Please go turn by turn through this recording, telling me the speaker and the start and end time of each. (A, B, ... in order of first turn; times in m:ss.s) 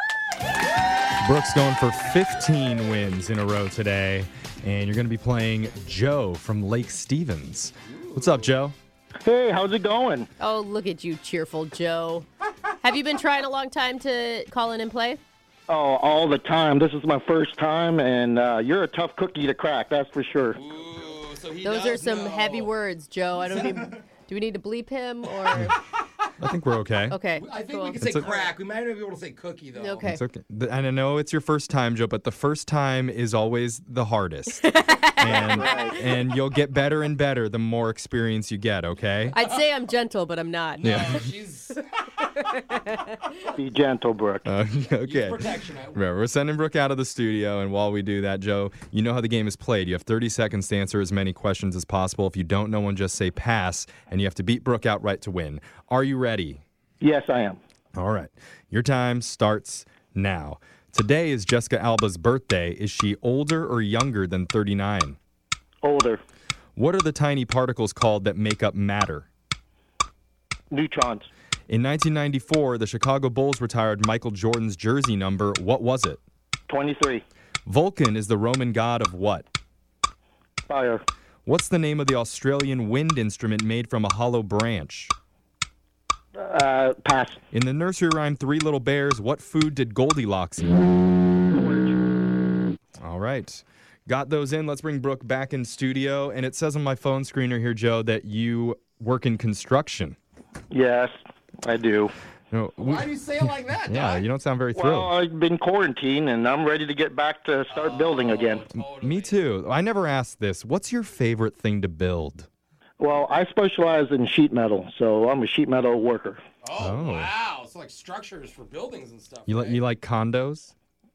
0:01.2-0:08.8 A
0:07.9-0:08.3 B
0:09.2-0:10.3 C
0:10.4-0:12.3 D
0:12.8-0:15.2 D
0:15.7-0:20.6 C
0:20.6-0:22.7 B
0:21.6-0:25.8 D
0:23.5-0:24.0 B
0:26.4-0:27.2 A
0:27.1-0:28.5 D
0:27.3-0:30.0 B
0:28.0-0:28.3 A
0:29.8-0:30.2 D
0:30.0-0:39.4 A
0:34.6-0:36.0 D
0:35.3-0:36.0 C
0:39.3-0:41.2 D
0:40.8-0:42.3 B
0:40.8-0:41.2 A
0:42.4-0:43.1 D
0:43.6-0:44.5 C
0:44.4-0:45.4 A
0:45.0-0:46.0 B
0:45.9-0:56.6 A
0:57.0-0:57.6 C
0:58.0-1:05.2 A
1:05.8-1:06.2 C
1:06.8-1:09.3 A
1:10.7-1:11.3 C
1:11.7-1:16.2 A
1:16.7-1:17.2 C
1:17.7-1:19.5 A
1:20.7-1:21.0 C
1:21.4-1:25.1 A
1:26.4-1:27.4 C
1:27.5-1:30.7 A
1:31.5-1:32.0 C
1:33.0-1:40.2 A
1:40.7-1:42.1 C
1:42.5-1:43.1 A
1:42.8-1:44.2 B
1:43.9-1:45.1 A
1:44.8-1:48.7 C
1:47.7-1:49.4 B
1:48.8-1:52.5 A
1:53.0-1:56.4 C
1:56.6-1:59.8 B
1:56.8-1:57.3 A
1:59.5-2:00.7 A